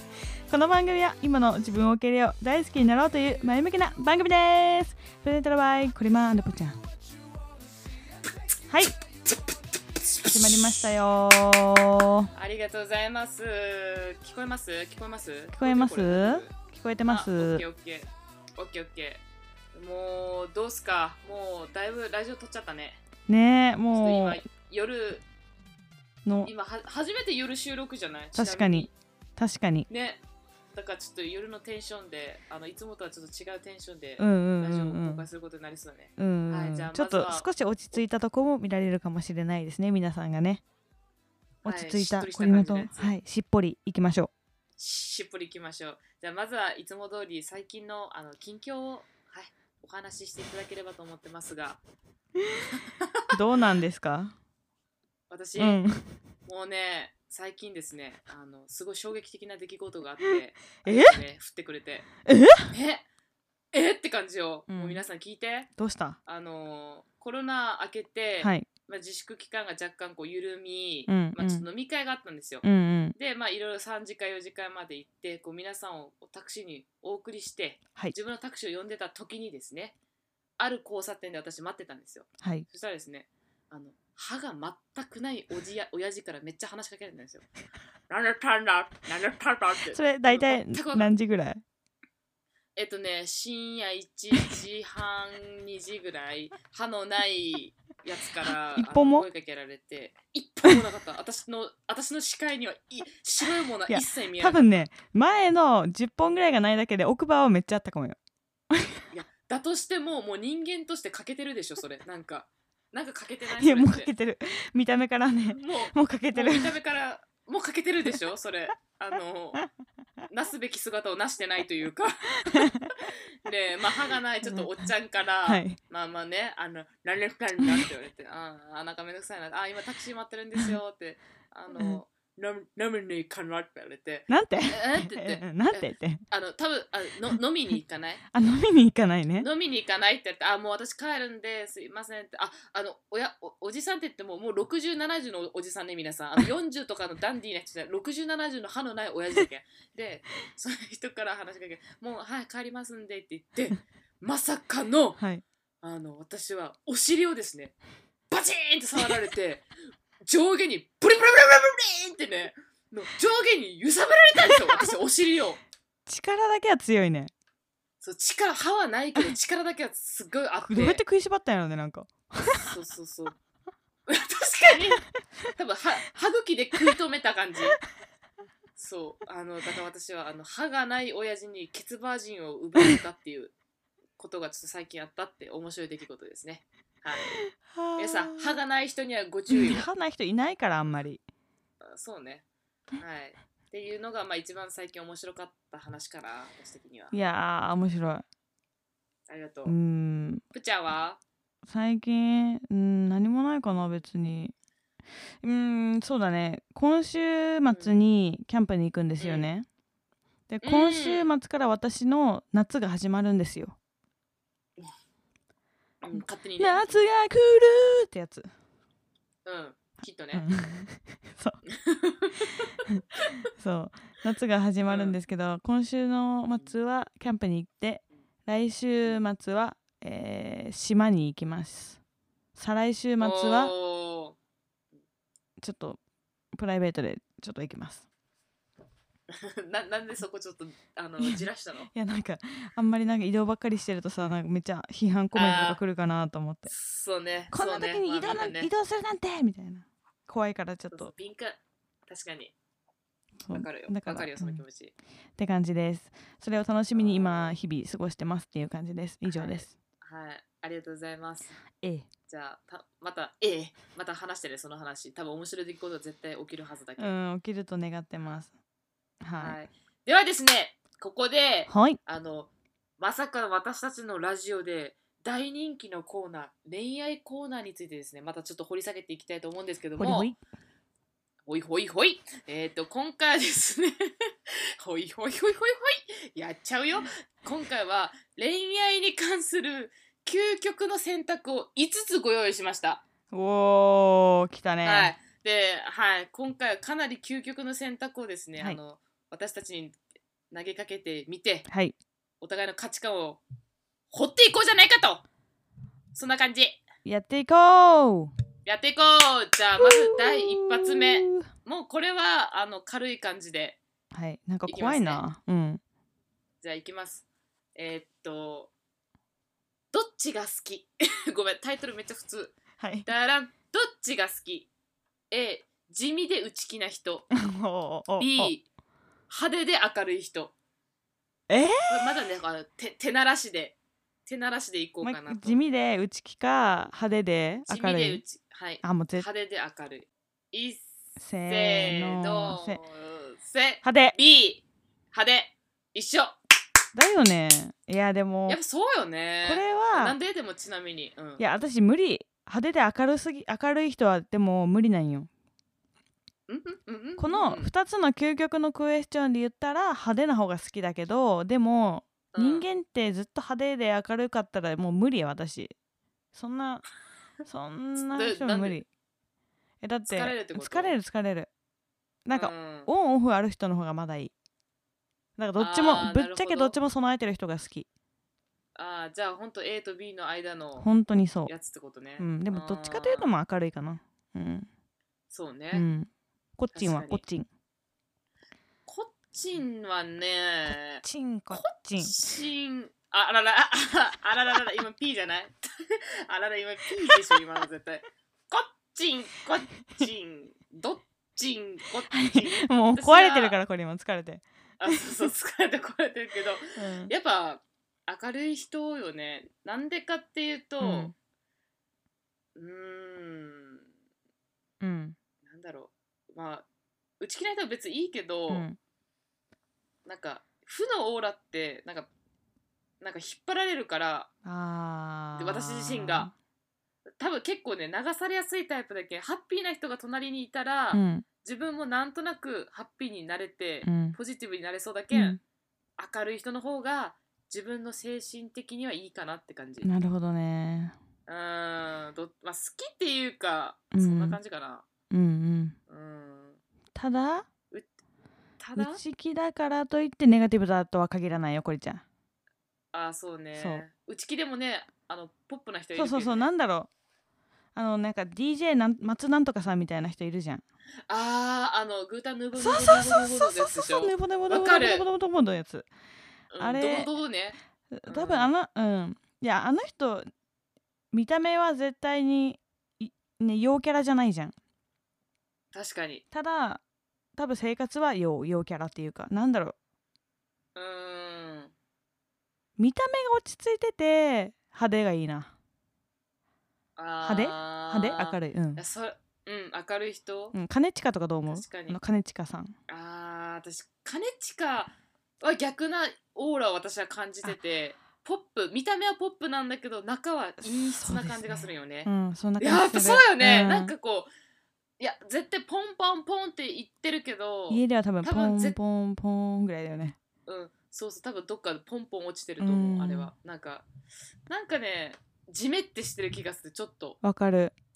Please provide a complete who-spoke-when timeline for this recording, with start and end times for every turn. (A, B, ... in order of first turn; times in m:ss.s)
0:00.5-0:06.8 A
0:08.7-0:08.9 A
0:10.2-0:12.3 A
0:12.3-0:16.5 B
0:15.5-0:17.6 A
0:17.1-0:19.2 B
0:19.7-0:23.0 B
0:23.3-0:24.4 A
0:23.9-0:25.2 B
0:26.2-0:26.5 A
0:26.4-0:28.9 B
0:28.4-0:29.9 A
0:29.9-0:30.2 B
0:30.7-0:37.5 B
0:34.2-0:35.2 A
0:36.2-0:40.6 A
0:41.6-0:44.3 A
0:41.6-0:43.1 B
0:44.8-0:51.8 B
0:52.4-0:52.6 A
0:52.7-0:53.3 B
0:53.3-0:54.4 A
0:55.3-0:55.8 B
0:55.6-0:56.0 A
0:56.5-1:02.1 B
1:00.8-1:01.2 A
1:02.2-1:02.7 A
1:02.7-1:03.0 B
1:03.7-1:05.7 B
1:04.7-1:05.0 A
1:05.8-1:06.2 A
1:06.3-1:20.0 B
1:08.4-1:08.7 A
1:11.1-1:11.7 A
1:12.6-1:13.2 A
1:20.6-1:27.4 B
1:22.4-1:22.7 A
1:28.1-1:31.1 B
1:29.9-1:31.6 A
1:32.8-1:44.8 B
1:38.8-1:39.3 A
1:43.9-1:48.2 A
1:48.7-1:49.0 A
1:49.1-1:54.1 B
1:53.6-1:56.8 A
1:55.5-1:59.6 B
2:00.3-2:18.2 B
2:02.5-2:02.9 A
2:05.4-2:05.8 A
2:11.8-2:12.0 A
2:14.3-2:16.2 A
2:18.3-2:19.5 A
2:19.4-2:35.2 B
2:35.2-2:35.4 A
2:35.8-2:37.7 B
2:38.3-2:39.7 B
2:40.2-2:45.6 B
2:46.1-2:47.3 A
2:48.0-2:51.0 B
2:50.6-2:52.7 A
2:52.5-2:53.4 B
2:54.1-2:55.0 B
2:55.6-2:57.8 B
2:58.8-3:03.5 B
3:04.2-3:07.4 B
3:07.5-3:08.6 A
3:08.0-3:09.9 B
3:09.5-3:11.2 A
3:11.8-3:12.4 B
3:13.0-3:17.2 B
3:17.1-3:18.2 A
3:19.3-3:19.8 B
3:19.7-3:20.4 A
3:20.5-3:21.2 B
3:21.7-3:24.5 A
3:25.4-3:29.7 A
3:27.7-3:28.0 B
3:29.2-3:29.5 B
3:30.5-3:33.8 A
3:30.6-3:31.3 B
3:36.0-3:37.1 B
3:36.1-3:38.5 A
3:39.4-3:40.4 B
3:40.3-3:41.6 A
3:41.7-3:43.4 B
3:43.5-3:52.0 A
3:44.8-3:45.2 B
3:52.6-3:53.7 A
3:53.2-3:54.4 B
3:55.6-3:56.0 A
3:56.5-3:58.1 A
3:59.3-4:01.9 B
4:01.2-4:06.7 A
4:05.3-4:05.8 B
4:06.7-4:08.7 B
4:07.5-4:11.1 A
4:10.9-4:12.5 B
4:13.4-4:14.6 A
4:13.5-4:14.9 B
4:15.4-4:19.7 A
4:16.9-4:17.6 B
4:19.2-4:21.6 B
4:21.8-4:22.1 A
4:22.3-4:27.2 B
4:27.0-4:28.5 A
4:29.2-4:29.6 A
4:29.4-4:40.3 B
4:31.7-4:32.0 A
4:40.0-4:40.4 A
4:41.5-4:53.0 B
4:53.3-4:55.1 A
4:54.8-5:00.0 B
5:00.5-5:01.7 B
5:01.7-5:02.0 A
5:02.4-5:03.4 B
5:04.1-5:05.2 B
5:06.2-5:06.8 B
5:07.0-5:08.3 A
5:08.7-5:13.8 B
5:09.8-5:11.5 A
5:14.1-5:15.8 A
5:14.7-5:15.2 B
5:16.6-5:17.2 B
5:17.8-5:18.7 B
5:19.9-5:24.7 B
5:22.8-5:23.1 A
5:25.3-5:27.4 B
5:27.3-5:28.5 A
5:28.2-5:28.6 B
5:29.3-5:30.5 B
5:31.5-5:31.9 A
5:31.9-5:35.6 B
5:35.0-5:38.2 A
5:37.7-5:40.9 B
5:38.8-5:39.3 A
5:41.2-5:42.8 A
5:41.5-5:46.4 B
5:43.8-5:44.2 A
5:46.9-5:48.6 A
5:48.5-5:51.4 B
5:49.4-5:50.2 A
5:51.4-5:55.3 A
5:56.5-5:57.7 B
5:57.2-6:05.8 A
6:02.3-6:02.6 B
6:06.3-6:06.8 A
6:07.5-6:08.9 A
6:08.0-6:08.8 B
6:09.8-6:11.5 A
6:10.1-6:11.0 B
6:12.2-6:14.3 A
6:12.3-6:12.9 B
6:15.4-6:17.9 A
6:15.6-6:16.8 B
6:18.8-6:20.9 B
6:20.8-6:21.5 A
6:21.5-6:23.3 B
6:22.2-6:24.7 A
6:25.3-6:25.9 B
6:25.7-6:27.5 A
6:26.7-6:27.2 B
6:28.9-6:43.6 B
6:31.0-6:32.1 A
6:37.1-6:37.4 A
6:42.1-6:45.3 A
6:44.8-6:51.1 B
6:46.8-6:47.1 A
6:50.8-6:51.1 A
6:52.6-6:53.8 B
6:54.8-6:55.2 A
6:55.4-6:56.7 B
6:57.2-6:58.7 B
6:58.5-6:58.8 A
7:00.1-7:02.1 B
7:03.0-7:04.3 B
7:04.4-7:06.3 A
7:05.4-7:06.3 B
7:07.2-7:15.4 B
7:10.9-7:11.2 A
7:13.8-7:14.2 A
7:15.1-7:15.4 A
7:16.0-7:19.9 B
7:19.8-7:21.0 A
7:21.3-7:24.8 B
7:23.9-7:24.4 A
7:25.1-7:25.8 A
7:25.9-7:26.6 B
7:27.0-7:27.5 A
7:28.6-7:29.0 B
7:28.8-7:32.0 A
7:32.9-7:36.5 B
7:33.6-7:33.8 A
7:36.0-7:36.9 A
7:37.8-7:40.6 A
7:41.1-7:45.0 B
7:42.6-7:45.9 A
7:46.5-7:48.5 B
7:46.6-7:47.1 A
7:47.9-7:50.3 A
7:51.1-7:54.6 A
7:55.7-7:56.2 B
7:56.3-7:56.8 A
7:57.4-7:59.8 A
8:00.8-8:01.7 B
8:02.8-8:05.5 A
8:07.0-8:10.6 B
8:07.2-8:08.8 A
8:10.5-8:12.8 A
8:11.5-8:12.0 B
8:12.9-8:24.3 B
8:20.6-8:23.9 A
8:25.0-8:28.8 B
8:27.7-8:30.2 A
8:30.5-8:33.9 B
8:32.6-8:33.3 A
8:34.5-8:37.2 B
8:37.2-8:37.8 A